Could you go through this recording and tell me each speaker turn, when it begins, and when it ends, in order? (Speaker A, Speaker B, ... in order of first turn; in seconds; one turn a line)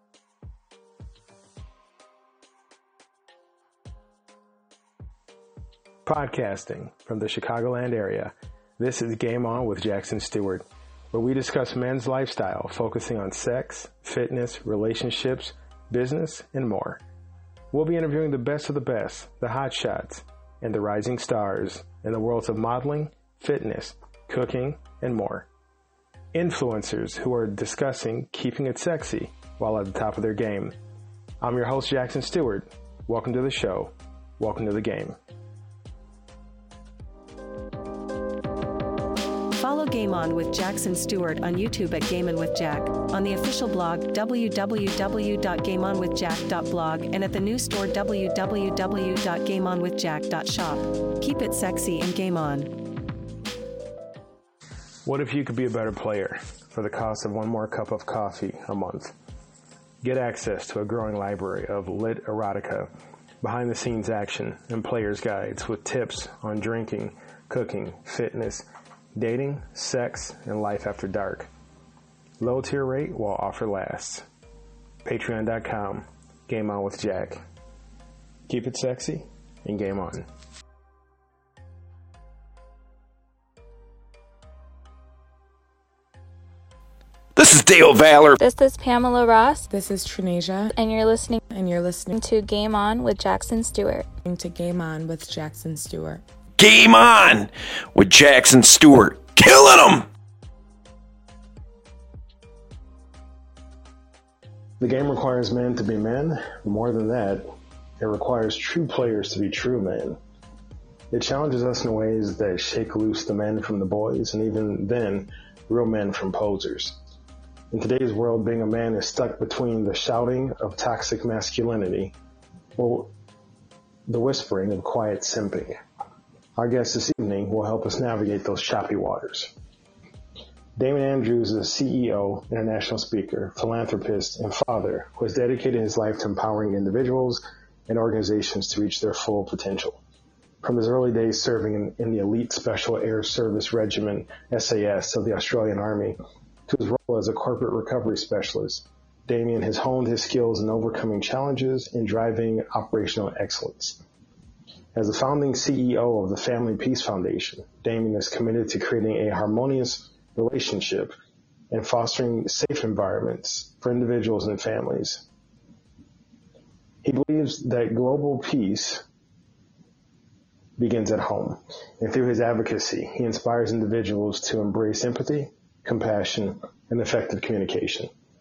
Speaker A: 6.0-17.0
Speaker A: 17.7-25.5
Speaker A: 26.3-30.8
Speaker A: 31.4-35.2
Speaker B: 39.6-52.8
Speaker A: 55.0-59.1
Speaker A: 60.0-62.9
Speaker A: 63.4-71.5
Speaker A: 72.4-74.3
Speaker A: 75.0-77.4
Speaker A: 78.5-80.3
Speaker C: 87.4-88.4
Speaker D: 88.4-89.7
Speaker E: 89.7-90.7
Speaker D: 90.7-91.5
Speaker E: 91.5-92.1
Speaker D: 92.1-94.1
Speaker E: 94.2-96.2
Speaker C: 96.6-100.1
Speaker A: 104.8-110.2
Speaker A: 111.1-117.0
Speaker A: 117.7-122.2
Speaker A: 122.8-123.1
Speaker A: 124.1-125.8
Speaker A: 126.6-129.5
Speaker A: 130.8-140.0
Speaker A: 140.6-154.0
Speaker A: 154.9-161.2
Speaker A: 161.7-165.3
Speaker A: 167.0-169.1
Speaker A: 170.8-178.1